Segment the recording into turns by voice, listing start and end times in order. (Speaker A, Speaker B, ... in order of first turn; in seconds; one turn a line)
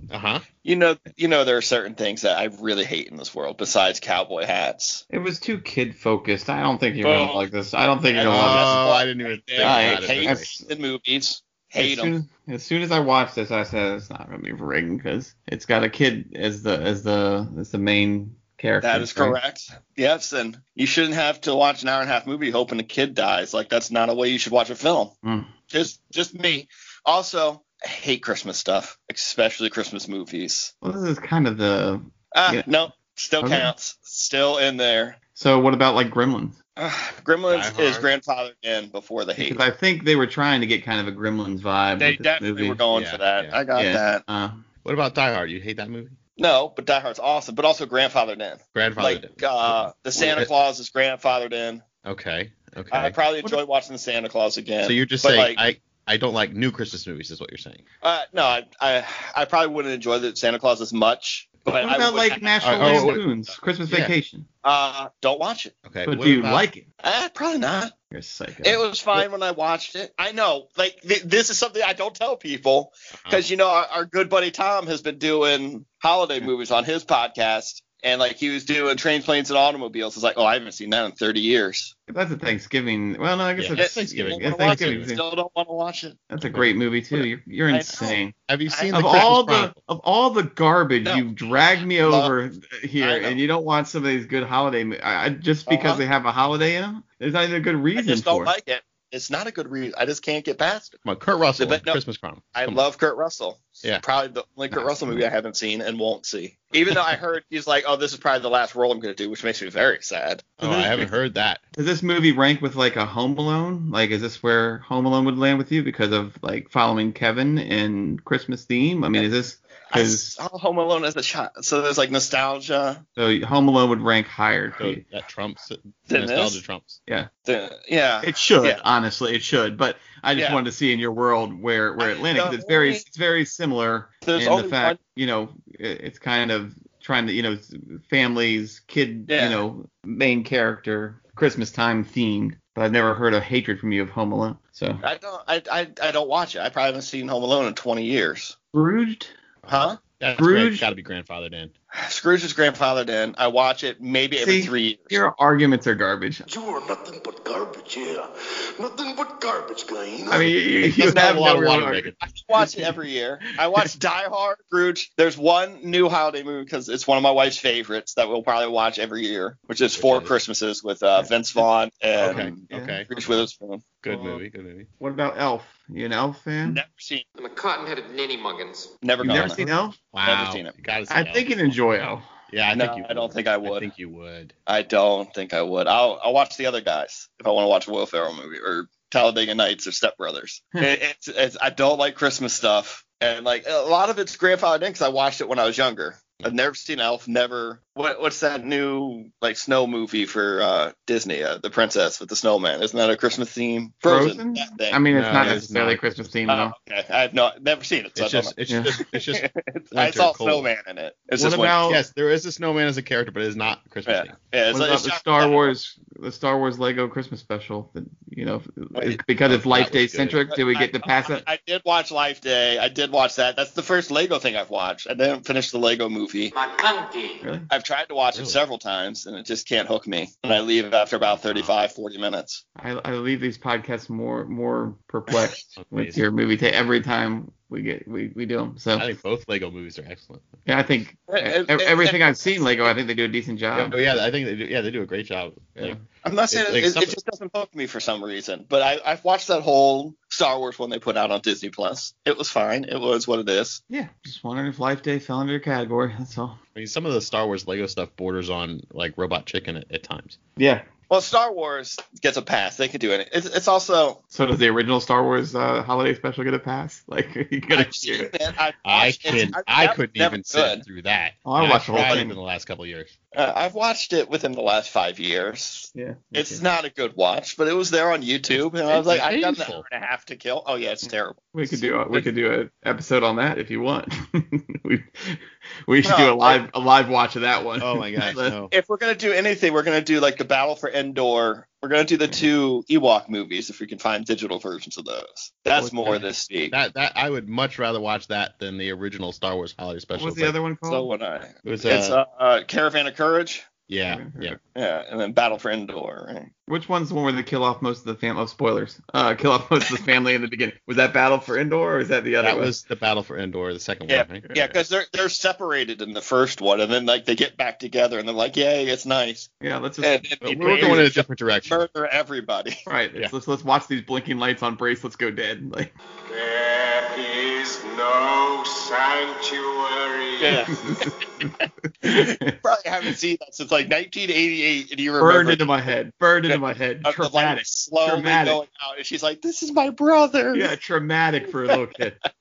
Speaker A: 0.1-0.5
Speaker B: 0.6-5.0
Speaker C: 5.1-8.8
Speaker B: 7.0-7.4
Speaker B: 8.1-12.1
Speaker A: 8.2-10.5
Speaker C: 9.6-10.6
Speaker C: 11.8-19.4
Speaker B: 18.8-25.1
Speaker C: 25.2-25.5
Speaker B: 25.7-30.7
Speaker C: 30.8-32.7
Speaker B: 32.3-35.2
Speaker C: 33.4-33.7
Speaker C: 35.3-36.5
Speaker B: 36.8-39.6
Speaker A: 37.5-38.1
Speaker C: 39.4-42.8
Speaker B: 42.0-44.2
Speaker A: 42.9-43.6
Speaker C: 43.7-44.6
Speaker A: 44.8-46.2
Speaker B: 46.4-51.8
Speaker A: 48.7-50.5
Speaker A: 52.0-53.2
Speaker B: 52.9-55.6
Speaker A: 54.8-57.8
Speaker B: 58.0-63.2
Speaker C: 61.8-64.5
Speaker A: 62.6-63.2
Speaker A: 63.9-64.1
Speaker B: 64.6-65.7
Speaker A: 65.8-66.7
Speaker C: 66.0-66.8
Speaker B: 67.0-67.9
Speaker C: 68.1-68.8
Speaker B: 68.6-81.9
Speaker A: 73.2-73.4
Speaker C: 82.1-85.2
Speaker A: 83.6-85.1
Speaker B: 83.8-86.2
Speaker C: 86.3-88.3
Speaker A: 86.4-86.7
Speaker B: 87.7-89.3
Speaker A: 88.4-89.8
Speaker C: 88.9-98.5
Speaker B: 91.0-92.3
Speaker B: 93.0-93.4
Speaker B: 95.7-96.0
Speaker B: 98.0-101.0
Speaker A: 101.0-102.8
Speaker B: 101.6-102.0
Speaker B: 102.5-110.5
Speaker A: 104.7-105.2
Speaker A: 110.6-111.6
Speaker C: 110.6-111.1
Speaker C: 111.7-120.4
Speaker B: 119.9-123.0
Speaker C: 123.2-125.0
Speaker A: 124.8-127.0
Speaker B: 126.1-126.6
Speaker B: 127.5-128.8
Speaker C: 128.2-145.0
Speaker B: 130.3-130.6
Speaker B: 132.0-133.0
Speaker B: 134.2-135.0
Speaker B: 139.3-139.6
Speaker B: 145.0-148.6
Speaker C: 148.7-149.3
Speaker B: 149.7-150.0
Speaker A: 150.0-151.7
Speaker C: 150.3-150.9
Speaker B: 151.9-155.2
Speaker C: 154.4-156.4
Speaker D: 156.5-158.3
Speaker D: 158.8-160.4
Speaker C: 160.3-162.9
Speaker A: 160.4-162.2
Speaker B: 161.0-161.6
Speaker B: 162.2-173.9
Speaker A: 169.9-170.3
Speaker C: 171.2-171.6
Speaker A: 172.2-173.4
Speaker C: 172.7-173.4
Speaker A: 174.0-174.9
Speaker C: 174.1-174.4
Speaker C: 175.0-176.8
Speaker B: 176.6-177.2
Speaker E: 177.4-178.9
Speaker B: 179.0-179.7
Speaker A: 179.2-181.5
Speaker C: 179.2-179.9
Speaker B: 180.2-180.7
Speaker C: 181.1-182.3
Speaker A: 182.5-184.5
Speaker B: 182.7-183.9
Speaker B: 184.7-205.6
Speaker C: 204.1-206.7
Speaker A: 205.1-206.4
Speaker B: 206.5-208.5
Speaker A: 208.2-210.7
Speaker C: 208.7-208.9
Speaker B: 209.1-211.9
Speaker C: 211.3-212.0
Speaker A: 211.8-214.3
Speaker B: 214.1-215.7
Speaker C: 214.7-221.4
Speaker A: 219.4-220.4
Speaker B: 220.5-226.5
Speaker E: 226.5-227.4
Speaker C: 227.4-227.7
Speaker B: 227.7-232.6
Speaker A: 228.3-228.6
Speaker A: 231.3-231.8
Speaker C: 232.8-239.1
Speaker A: 235.8-236.2
Speaker A: 238.9-240.6
Speaker C: 240.7-244.2
Speaker B: 241.3-242.9
Speaker A: 243.7-246.0
Speaker B: 246.2-253.8
Speaker A: 246.5-247.2
Speaker C: 253.9-256.6
Speaker A: 256.7-260.4
Speaker C: 260.6-260.9
Speaker B: 261.1-264.2
Speaker C: 264.3-268.3
Speaker B: 267.7-270.8
Speaker A: 268.8-273.1
Speaker C: 271.4-272.4
Speaker B: 273.3-282.3
Speaker C: 275.9-276.6
Speaker A: 278.9-279.8
Speaker C: 281.5-288.5
Speaker B: 286.0-286.6
Speaker A: 287.8-288.7
Speaker B: 288.7-296.8
Speaker C: 295.8-296.3
Speaker A: 296.7-300.6
Speaker C: 300.1-301.1
Speaker B: 300.9-303.7
Speaker A: 301.6-302.2
Speaker A: 303.9-304.6
Speaker C: 304.1-304.6
Speaker B: 304.7-306.5
Speaker C: 306.7-312.7
Speaker A: 312.4-314.5
Speaker B: 314.1-319.5
Speaker C: 314.4-314.8
Speaker C: 319.6-321.1
Speaker B: 320.0-322.8
Speaker A: 320.4-321.9
Speaker C: 322.9-325.9
Speaker D: 326.3-330.6
Speaker B: 330.4-330.8
Speaker C: 330.7-332.6
Speaker B: 332.0-335.7
Speaker C: 335.2-338.6
Speaker B: 336.5-340.7
Speaker C: 340.5-342.2